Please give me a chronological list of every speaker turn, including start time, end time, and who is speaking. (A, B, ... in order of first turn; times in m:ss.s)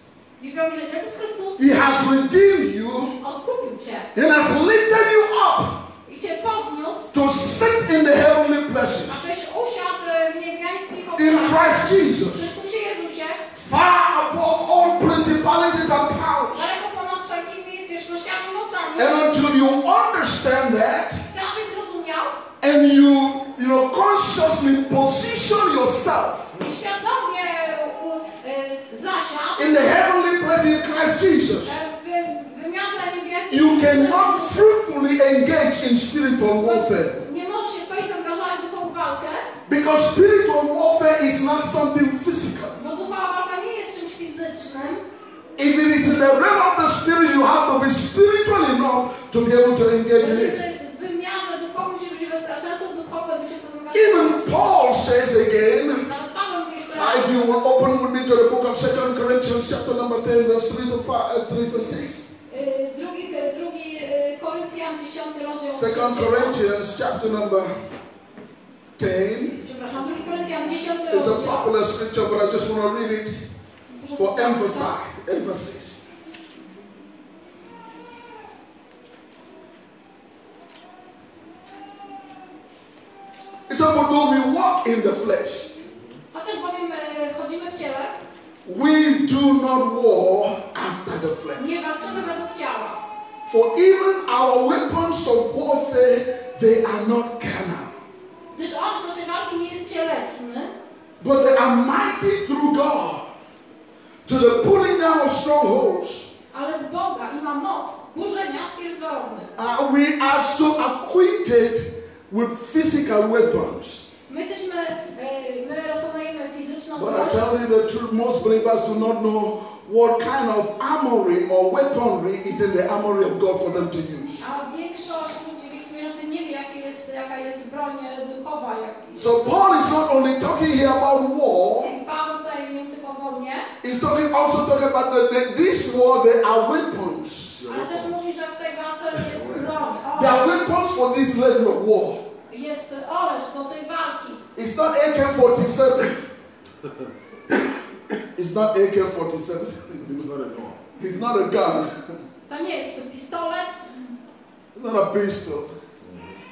0:00.4-0:01.9 A
0:01.6-0:03.2 B
0:03.2-0:04.1 A
0:04.1-0:05.9 B
0:06.1-0:07.1 A
0:07.1-0:09.2 B
0:09.1-0:13.4 A
0:11.2-0:12.5 B
0:13.5-0:16.7 B
0:16.5-0:19.4 A
0:19.0-0:21.2 B
0:21.3-0:22.4 A
0:22.6-0:26.5 B
0:26.6-0:29.9 A
0:29.6-0:31.8 B
0:31.6-0:34.6 A
0:33.5-0:37.2 B
0:36.6-0:39.5 A
0:39.7-0:42.8 B
0:42.8-0:45.0 A
0:45.6-0:50.6 B
0:50.2-0:54.5 A
0:53.9-0:56.1 B
0:56.0-0:57.4 A
0:56.9-1:02.3 B
1:02.5-1:06.6 A
1:05.7-1:07.7 B
1:09.0-1:09.6 B
1:09.6-1:11.7 A
1:11.1-1:13.4 B
1:13.9-1:14.9 A
1:14.2-1:16.0 B
1:23.7-1:25.8 B
1:26.3-1:28.1 A
1:28.6-1:31.8 B
1:31.6-1:33.0 A
1:33.5-1:38.0 B
1:38.5-1:40.7 A
1:41.2-1:43.3 B
1:44.3-1:46.3 B
1:46.5-1:49.5 A
1:49.6-1:54.1 B
1:54.3-1:57.4 A
1:57.0-2:04.4 B
2:04.4-2:09.4 A
2:09.2-2:11.9 B
2:11.8-2:13.7 A
2:13.8-2:17.6 B
2:17.6-2:18.2 C
2:17.7-2:20.5 A
2:19.4-2:19.6 C
2:20.1-2:22.3 B
2:22.5-2:24.4 A
2:24.6-2:26.3 B
2:28.4-2:30.1 B
2:30.0-2:30.9 C
2:31.0-2:32.0 B
2:32.5-2:33.8 A
2:34.8-2:35.7 B
2:36.0-2:36.4 C